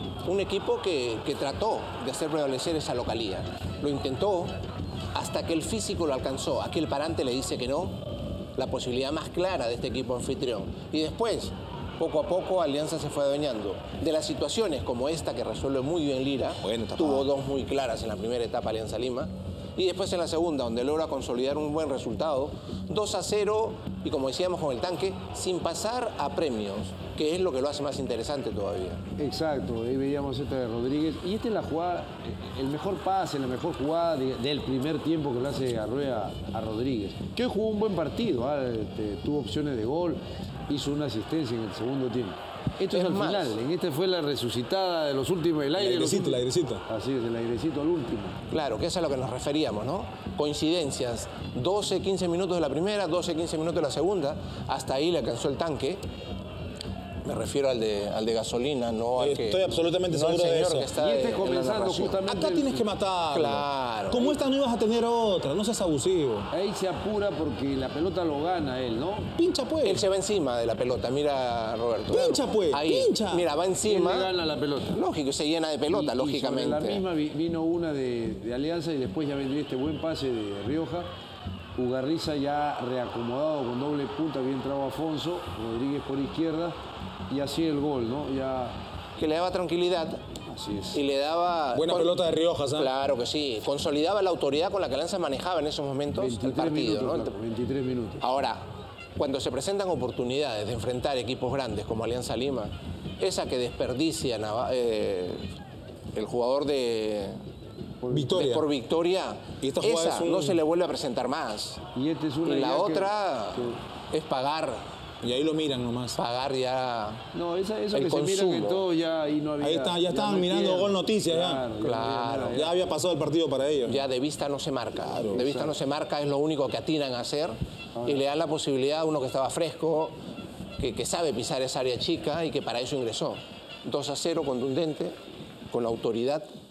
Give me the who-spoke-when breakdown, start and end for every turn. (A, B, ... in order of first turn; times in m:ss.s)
0:00.2-0:04.5 A
0:05.1-0:08.0 A
0:08.6-0:29.0 A
0:16.6-0:17.3 B
0:29.2-0:48.4 C
0:42.9-0:43.6 A
0:45.8-0:46.8 B
0:48.5-0:56.0 A
0:57.2-1:02.2 A
0:59.2-1:00.9 B
1:01.0-1:02.9 C
1:02.2-1:06.5 B
1:03.3-1:04.4 A
1:06.5-1:09.4 C
1:09.4-1:10.0 B
1:09.8-1:14.3 A
1:12.1-1:13.5 B
1:13.8-1:15.0 C
1:14.9-1:17.0 A
1:15.9-1:21.1 C
1:21.8-1:26.8 C
1:27.3-1:28.8 C
1:29.2-1:30.2 A
1:30.5-1:31.0 C
1:30.9-1:32.1 A
1:31.7-1:32.9 B
1:32.7-1:37.3 A
1:36.2-1:38.2 C
1:38.2-1:38.6 A
1:39.2-1:45.5 A
1:46.1-1:47.4 A
1:48.0-1:48.4 C
1:48.1-1:48.7 B
1:48.3-1:51.8 A
1:49.6-1:50.6 B
1:51.9-1:53.8 C
1:52.4-1:54.8 A
1:55.2-1:56.2 B
1:56.2-1:57.2 A
1:57.3-2:02.8 C
1:57.9-1:58.9 A
1:59.6-2:01.6 B
2:01.8-2:02.6 A
2:02.5-2:04.0 B
2:03.8-2:10.1 A
2:05.2-2:05.7 C
2:08.0-2:08.2 C
2:10.8-2:15.1 A
2:15.7-2:16.5 A